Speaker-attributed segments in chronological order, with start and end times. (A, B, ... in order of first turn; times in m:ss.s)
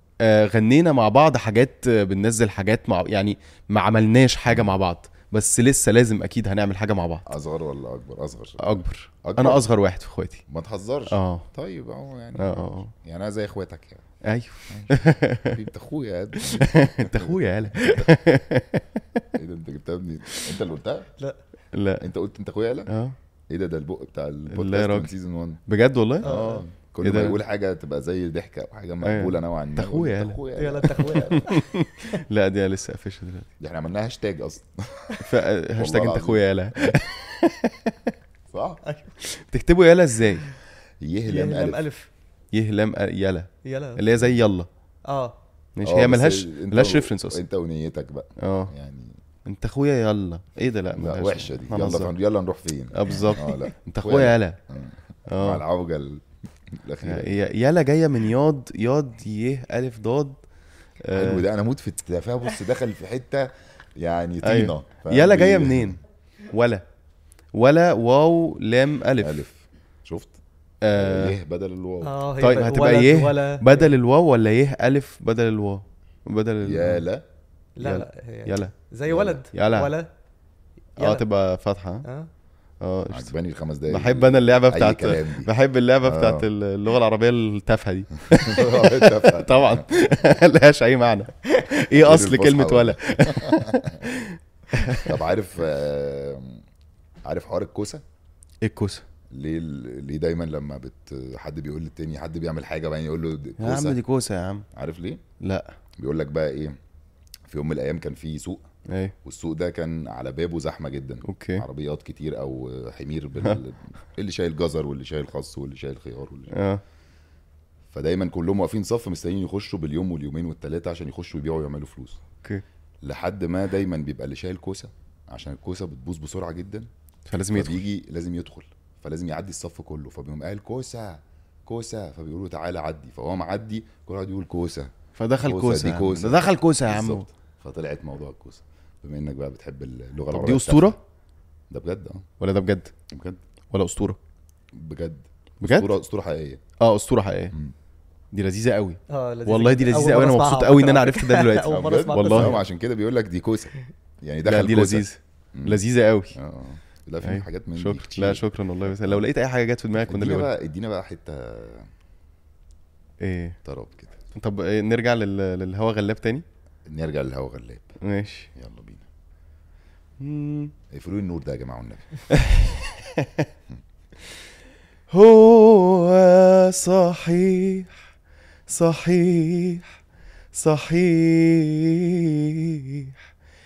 0:00.2-0:07.2 A
0:04.5-0:04.8 B
0:07.3-0:09.6 B
0:08.6-0:10.4 A
0:10.5-0:14.0 B
0:11.1-0:11.5 A
0:12.4-0:12.9 A
0:14.2-0:15.6 A
0:14.7-0:18.2 B
0:16.4-0:19.2 A
0:19.4-0:21.1 B
0:21.7-0:22.1 A
0:22.0-0:22.9 B
0:22.9-0:23.2 A
0:23.5-0:25.6 B
0:24.5-0:25.1 A
0:25.7-0:27.4 A
0:26.2-0:26.6 C
0:26.2-0:31.5 B
0:29.0-0:30.4 A
0:30.6-0:31.5 C
0:31.0-0:33.5 A
0:33.6-0:35.2 B
0:35.2-0:38.1 A
0:35.8-0:37.0 B
0:38.5-0:38.8 B
0:39.2-0:40.4 A
0:41.0-0:41.8 B
0:41.3-0:42.1 C
0:42.5-0:44.7 A
0:43.6-0:44.0 C
0:45.1-0:45.4 C
0:45.8-0:47.4 A
0:45.8-0:49.2 B
0:48.4-0:48.7 A
0:49.5-0:52.1 A
0:51.0-0:57.3 B
0:52.9-0:54.6 A
0:55.3-0:55.6 A
0:57.0-1:00.4 A
1:01.0-1:01.4 A
1:01.1-1:06.0 B
1:04.4-1:06.0 A
1:06.5-1:06.8 A
1:07.5-1:09.4 A
1:09.2-1:10.4 B
1:10.8-1:11.4 A
1:10.9-1:12.2 B
1:12.0-1:13.9 C
1:12.4-1:17.0 A
1:16.6-1:17.2 B
1:17.8-1:20.1 C
1:17.8-1:18.8 A
1:19.1-1:19.4 B
1:19.5-1:19.9 A
1:21.0-1:21.2 C
1:21.0-1:22.0 A
1:22.0-1:22.3 C
1:22.8-1:23.3 A
1:23.1-1:25.5 B
1:23.9-1:35.2 A
1:26.0-1:26.5 B
1:28.3-1:29.9 B
1:31.9-1:34.0 B
1:34.8-1:36.6 B
1:37.2-1:38.0 B
1:38.6-1:39.1 A
1:39.3-1:44.0 B
1:43.6-1:44.7 A
1:44.7-1:45.2 B
1:45.4-1:45.7 A
1:46.0-1:46.8 B
1:47.5-1:48.7 B
1:48.9-1:49.2 A
1:49.2-1:56.6 B
1:51.2-1:51.7 A
1:56.5-1:56.8 A
1:57.9-2:02.2 B
2:03.0-2:06.9 B
2:07.3-2:07.8 A
2:07.5-2:21.0 B
2:15.2-2:17.3 A
2:20.3-2:21.0 A
2:21.7-2:22.2 B
2:22.4-2:22.9 A
2:23.1-2:23.4 B
2:23.7-2:24.2 A
2:24.7-2:26.6 B
2:25.6-2:25.9 A
2:26.8-2:27.6 A
2:28.3-2:32.6 A
2:29.1-2:32.6 C
2:31.7-2:35.8 B
2:34.4-2:36.4 A
2:36.3-2:39.2 B
2:37.2-2:40.5 A
2:40.0-2:41.9 B
2:43.2-2:43.6 A
2:43.6-2:44.2 B
2:44.4-2:46.4 A
2:46.9-2:48.0 B
2:48.0-2:48.5 A
2:48.6-2:49.0 B
2:50.2-2:50.7 A
2:50.9-2:52.2 B
2:52.3-2:53.5 A
2:55.1-2:57.9 A
2:58.7-3:00.0 A
3:00.6-3:03.2 A